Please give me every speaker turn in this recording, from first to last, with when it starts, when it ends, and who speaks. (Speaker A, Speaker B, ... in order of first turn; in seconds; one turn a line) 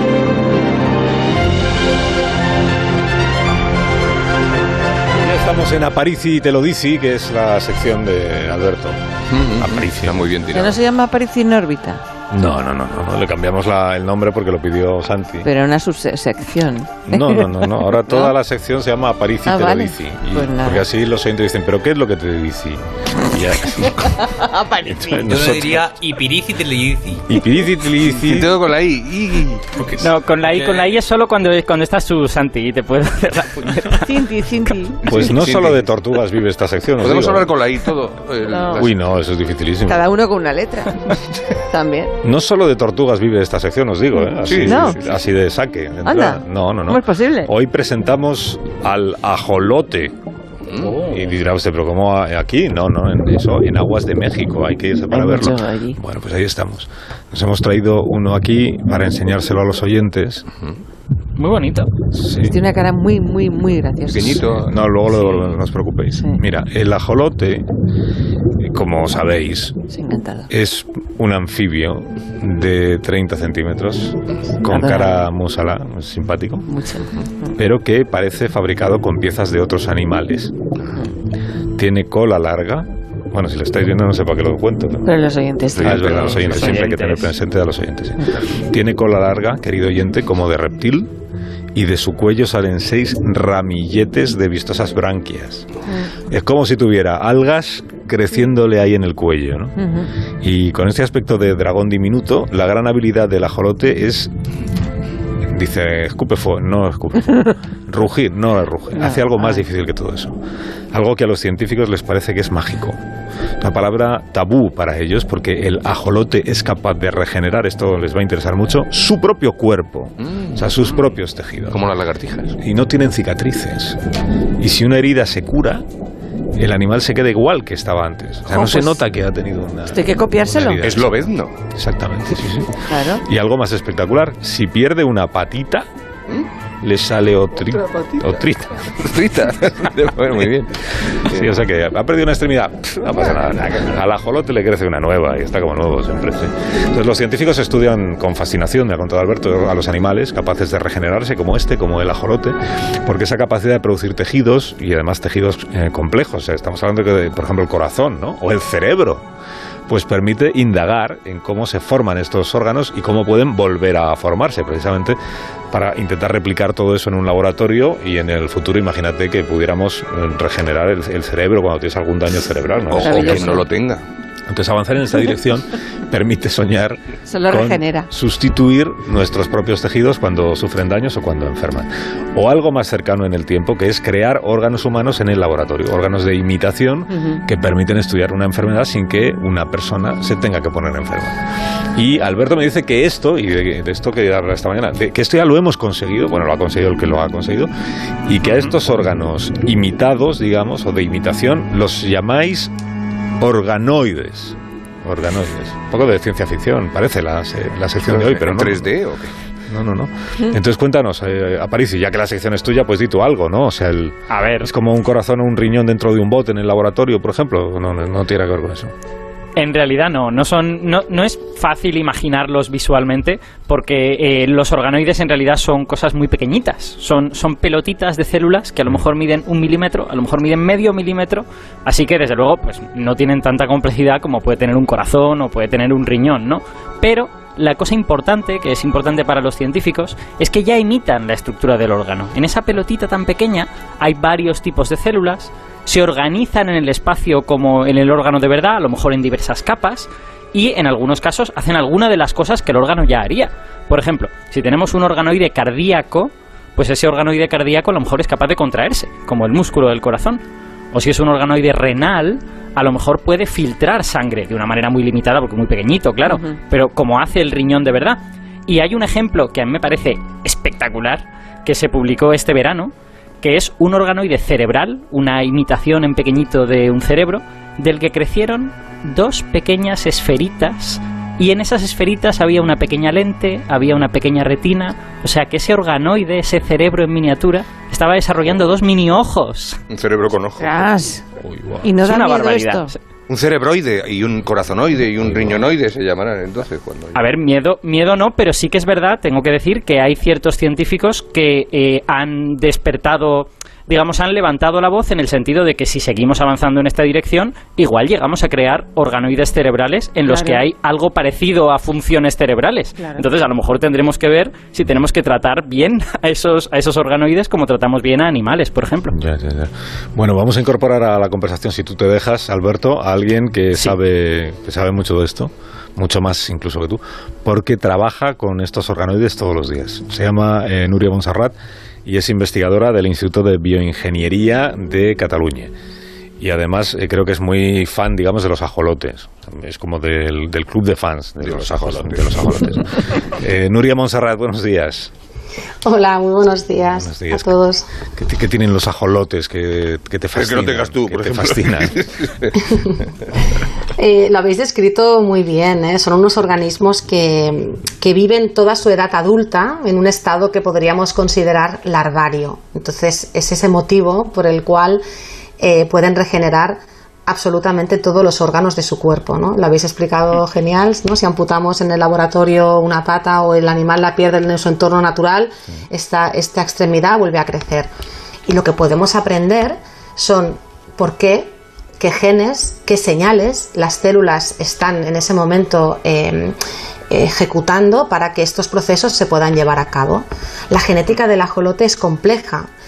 Speaker A: 5.2-9.0
Speaker B: 9.3-10.8
Speaker A: 9.6-10.5
Speaker C: 10.5-12.0
Speaker A: 12.3-15.5
Speaker C: 15.4-18.4
Speaker A: 17.1-24.2
Speaker C: 19.4-20.9
Speaker C: 24.1-25.4
Speaker A: 24.8-25.9
Speaker D: 25.3-27.3
Speaker A: 27.3-28.6
Speaker B: 28.1-29.7
Speaker D: 29.8-30.9
Speaker E: 30.0-34.1
Speaker C: 34.0-35.0
Speaker A: 35.0-37.5
Speaker B: 35.0-35.9
Speaker B: 37.0-39.0
Speaker C: 38.5-38.9
Speaker A: 38.8-40.1
Speaker C: 39.9-42.1
Speaker A: 42.2-50.1
Speaker B: 44.5-45.2
Speaker C: 44.6-45.0
Speaker C: 46.0-47.5
Speaker B: 50.7-50.9
Speaker E: 50.8-51.2
Speaker A: 51.0-60.5
Speaker C: 55.1-56.0
Speaker E: 61.4-61.9
Speaker A: 62.1-62.6
Speaker C: 62.4-64.5
Speaker B: 64.1-64.8
Speaker A: 64.5-67.7
Speaker C: 66.1-66.4
Speaker A: 68.6-69.8
Speaker C: 69.9-70.5
Speaker A: 70.5-76.7
Speaker C: 74.7-75.3
Speaker C: 76.7-77.6
Speaker A: 77.5-80.5
Speaker A: 81.8-85.2
Speaker C: 85.0-86.0
Speaker B: 85.7-86.8
Speaker A: 85.8-91.1
Speaker E: 86.5-87.3
Speaker A: 91.7-95.7
Speaker A: 96.3-99.8
Speaker C: 99.8-100.1
Speaker A: 100.4-104.3
Speaker A: 105.5-110.4
Speaker C: 109.0-109.7
Speaker A: 110.9-113.0
Speaker A: 113.6-121.8
Speaker B: 120.2-121.0
Speaker B: 121.7-122.6
Speaker A: 122.6-124.0
Speaker A: 124.6-125.8
Speaker A: 126.6-135.9
Speaker C: 128.5-129.0
Speaker C: 129.9-130.8
Speaker B: 130.8-131.5
Speaker C: 132.9-133.2
Speaker A: 136.8-138.9
Speaker B: 139.0-141.6
Speaker A: 141.2-159.2
Speaker A: 159.9-165.2
Speaker A: 165.7-173.7
Speaker B: 172.9-174.0
Speaker C: 173.0-173.6
Speaker A: 174.5-191.4
Speaker C: 177.3-178.1
Speaker C: 187.1-187.4
Speaker A: 191.9-197.7
Speaker A: 198.3-202.7
Speaker E: 198.4-198.7
Speaker A: 203.4-208.9
Speaker B: 208.1-209.3
Speaker A: 209.7-218.9
Speaker E: 214.3-214.7
Speaker E: 219.6-260.4
Speaker E: 260.9-289.8
Speaker C: 266.2-266.6
Speaker B: 289.9-290.9
Speaker C: 290.6-291.2
Speaker A: 291.4-291.9
Speaker C: 291.8-292.9
Speaker E: 292.0-293.0
Speaker B: 293.3-297.2
Speaker A: 295.2-295.7
Speaker E: 297.1-319.1
Speaker C: 310.3-310.6
Speaker C: 313.0-313.2
Speaker A: 319.1-335.7
Speaker A: 336.4-345.1
Speaker B: 341.4-342.6
Speaker F: 345.9-347.9
Speaker A: 346.9-347.6
Speaker A: 348.1-352.1
Speaker B: 350.4-352.5
Speaker F: 354.0-365.0
Speaker F: 365.6-377.9
Speaker F: 378.5-386.6
Speaker F: 387.1-392.7